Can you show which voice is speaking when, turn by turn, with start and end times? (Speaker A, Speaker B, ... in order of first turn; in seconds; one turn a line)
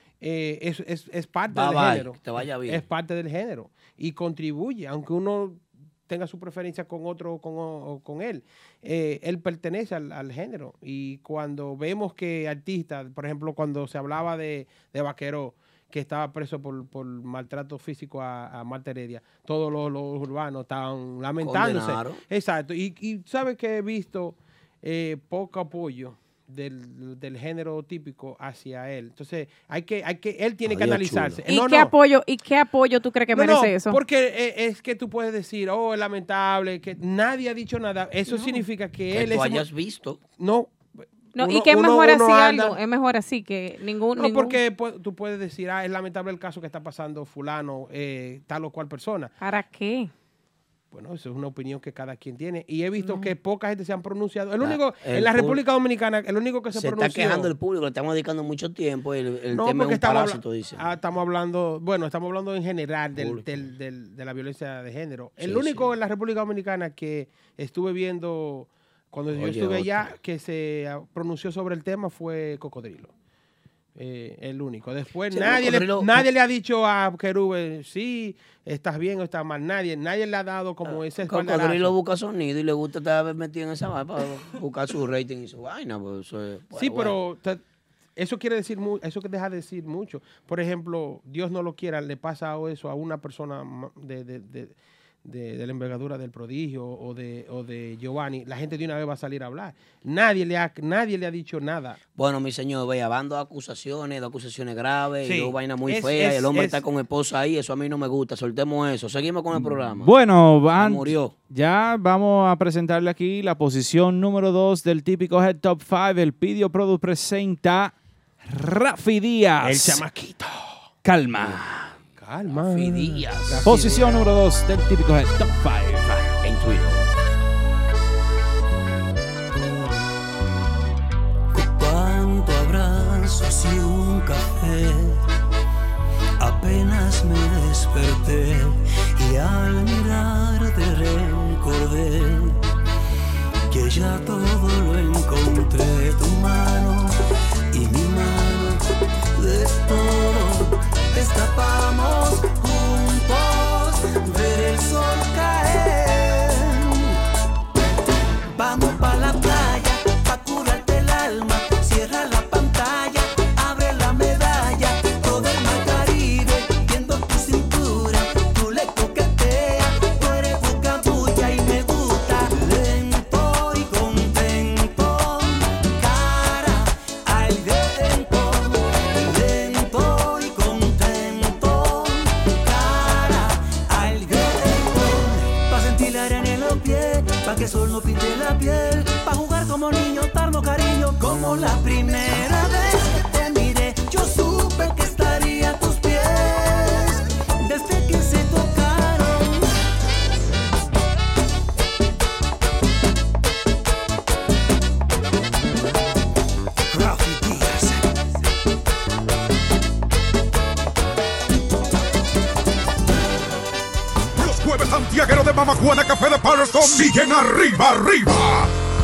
Speaker A: 0.2-31.9
Speaker B: 1.5-2.8
Speaker B: 21.4-22.2
Speaker B: 30.6-31.4
Speaker C: 31.5-34.0
Speaker A: 33.3-39.7
Speaker C: 38.3-38.6
Speaker B: 39.1-40.2
Speaker A: 40.4-40.7
Speaker C: 41.4-44.6
Speaker A: 41.4-42.8
Speaker A: 44.2-49.3
Speaker C: 49.4-50.1
Speaker A: 50.9-57.5
Speaker C: 53.0-53.3
Speaker B: 54.6-55.6
Speaker B: 56.7-60.9
Speaker A: 59.5-73.1
Speaker B: 63.1-63.7
Speaker B: 65.4-66.0
Speaker B: 69.3-70.2
Speaker A: 74.0-82.0
Speaker B: 75.3-76.3
Speaker B: 80.9-87.2
Speaker A: 86.8-87.6
Speaker A: 88.2-102.0
Speaker B: 102.2-110.2
Speaker A: 105.2-106.8
Speaker D: 109.6-118.0
Speaker B: 110.8-111.3
Speaker D: 118.5-120.0
Speaker A: 119.6-120.9
Speaker D: 121.0-122.0
Speaker B: 121.3-121.6
Speaker A: 122.2-124.2
Speaker B: 122.5-123.7
Speaker D: 123.6-126.3
Speaker B: 126.4-127.1
Speaker E: 131.5-135.2
Speaker E: 136.4-142.6
Speaker E: 143.7-147.2
Speaker E: 147.7-148.8
Speaker E: 149.3-157.1
Speaker E: 158.5-199.7
Speaker E: 206.9-208.0
Speaker F: 214.3-218.7